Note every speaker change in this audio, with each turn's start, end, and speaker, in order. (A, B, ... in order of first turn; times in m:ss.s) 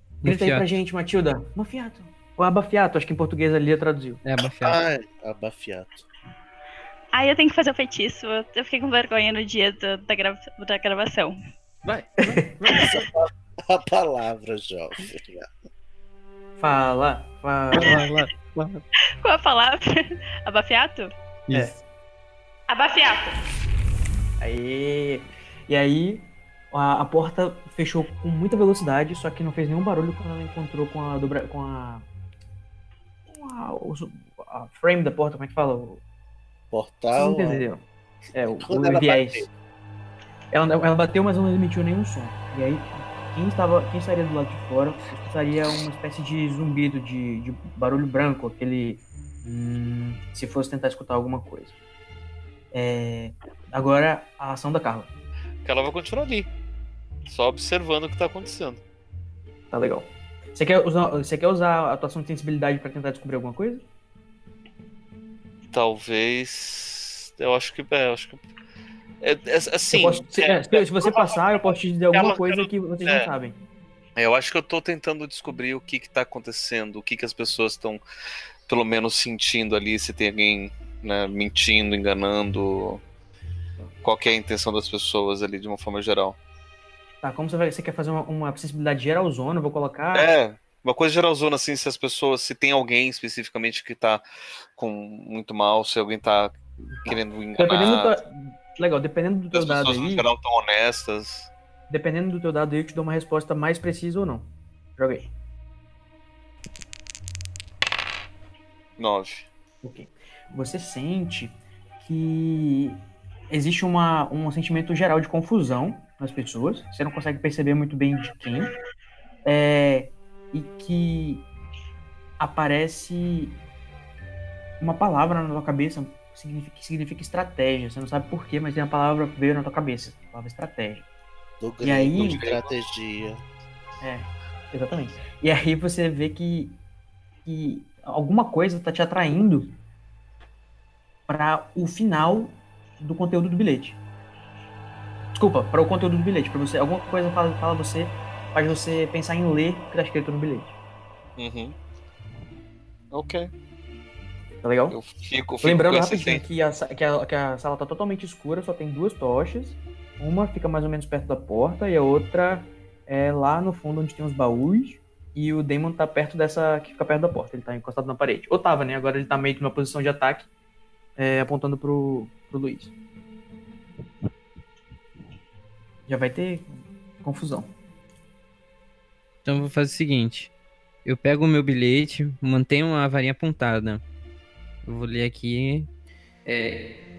0:00.2-0:00.7 A
0:00.2-0:04.2 B
0:04.2-0:04.8 A
0:04.4-0:06.0 C
0:07.1-0:11.4 D
0:11.8-0:12.6 A
0:12.2-0:12.7 B
0:12.8-0:15.5 C
0:16.6-0:18.0 B
0:17.7-0:18.8 A
0:19.2-0:21.1 D
0:21.5-0:21.8 A
0:22.7-0:23.4 D
0:24.4-0:32.1 B
0:33.3-0:36.0 B
0:36.7-0:37.6 C
0:37.2-0:39.5 B
0:38.5-0:39.5 C
0:40.5-0:51.8 B
0:52.7-0:55.1 B
0:55.6-0:56.5 E
0:57.3-0:58.8 E
0:59.7-1:03.8 B
1:05.7-1:08.4 E
1:09.2-1:13.3 E
1:09.9-1:13.6 B
1:14.2-1:18.0 E
1:18.7-1:23.0 E
1:24.0-1:26.4 E
1:27.2-1:30.3 B
1:30.1-1:34.2 E
1:34.8-1:38.2 E
1:37.0-1:40.3 B
1:39.5-1:41.5 E
1:41.9-1:45.3 B
1:49.0-1:49.5 E
1:49.8-1:58.7 B
1:59.4-2:01.5 B
2:02.4-2:03.6 B
2:04.8-2:11.1 B
2:11.6-2:13.4 C
2:11.8-2:12.4 B
2:12.3-2:12.7 E
2:14.0-2:16.8 B
2:17.5-2:19.8 B
2:21.3-2:24.0 B
2:25.3-2:30.8 B
2:31.4-2:31.8 E
2:33.1-2:33.5 E
2:34.6-2:35.0 B
2:34.9-2:36.4 E
2:35.6-2:50.5 B
2:51.2-2:52.9 B
2:56.1-2:56.7 B
2:57.2-2:57.7 B
2:59.4-3:00.5 A
3:01.0-3:04.0 A
3:04.8-3:05.9 A
3:06.5-3:06.8 A